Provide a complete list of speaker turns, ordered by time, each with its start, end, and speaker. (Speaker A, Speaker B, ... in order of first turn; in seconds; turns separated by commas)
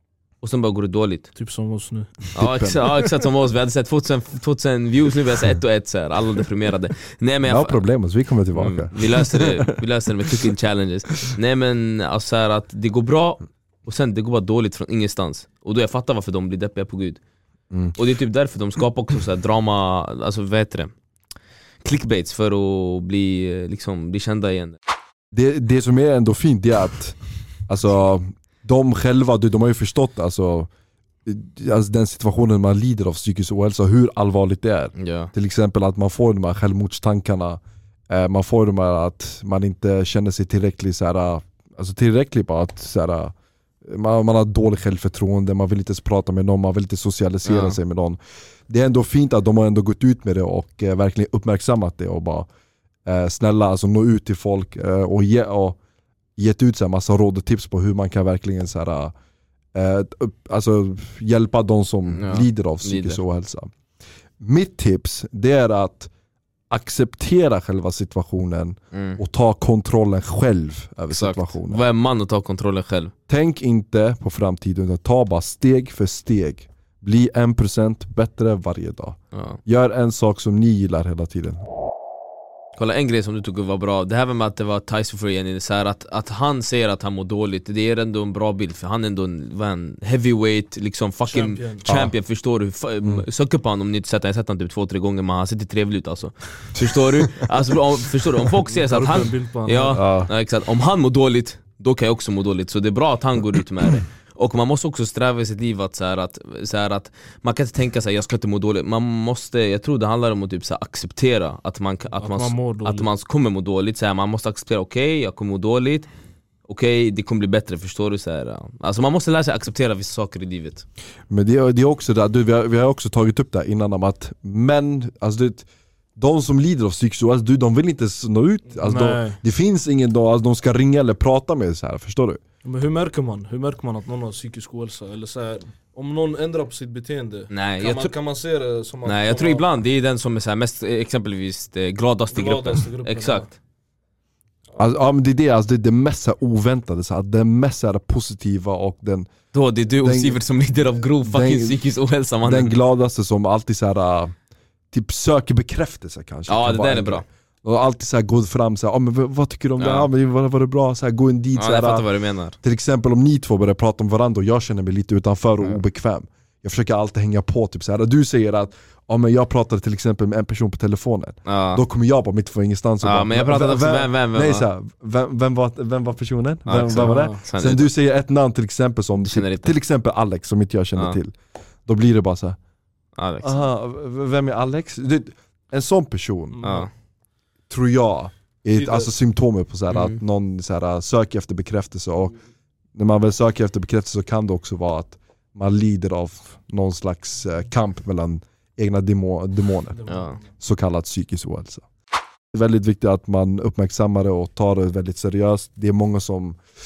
Speaker A: 0.4-1.3, Speaker B: 1.4-2.2, Speaker C: 2.4-3.0, Speaker A: 2.4-7.8, Speaker C: 7.4-9.8, Speaker A: 8.6-17.2, Speaker A: 18.0-20.9, Speaker A: 21.8-24.8, Speaker C: 25.3-27.2, Speaker C: 27.7-30.7, Speaker C: 31.2-43.3, Speaker A: 35.0-35.3, Speaker C: 43.9-52.5, Speaker A: 47.5-47.8, Speaker C: 53.1-55.8, Speaker C: 56.4-59.1, Speaker C: 59.8-63.7, Speaker A: 62.1-63.2, Speaker C: 64.4-66.1, Speaker C: 66.7-71.8, Speaker A: 68.9-69.2, Speaker A: 71.1-73.1, Speaker C: 73.3-81.6, Speaker A: 79.3-79.6, Speaker A: 82.8-116.1, Speaker B: 91.2-91.9, Speaker C: 91.9-92.1, Speaker C: 96.8-97.5, Speaker B: 98.7-100.0, Speaker C: 99.9-100.3, Speaker B: 112.2-113.1, Speaker A: 116.7-120.8, Speaker C: 121.3-132.4, Speaker B: 128.8-129.4, Speaker B: 132.6-139.7, Speaker A: 137.5-138.1, Speaker A: 139.1-143.5, Speaker B: 142.3-143.5, Speaker C: 144.8-149.3, Speaker A: 149.5-152.8, Speaker C: 150.0-150.4, Speaker C: 151.2-151.8, Speaker C: 152.4-154.3, Speaker C: 154.9-162.1, Speaker A: 156.5-157.2, Speaker A: 159.8-160.1, Speaker A: 161.6-162.6, Speaker C: 162.6-181.3, Speaker A: 171.5-171.8, Speaker A: 173.0-174.7, Speaker A: 176.7-177.9, Speaker B: 177.0-177.4, Speaker A: 179.2-179.7, Speaker C: 181.9-182.6, Speaker A: 183.2-183.6, Speaker C: 183.4-186.6, Speaker B: 186.6-186.9, Speaker A: 186.6-186.9, Speaker C: 187.7-192.3, Speaker B: 188.8-189.1, Speaker A: 189.9-190.2, Speaker C: 192.9-200.0, Speaker B: 200.0-200.4, Speaker A: 200.1-200.4, Speaker C: 200.6-201.9, Speaker C: 202.5-206.6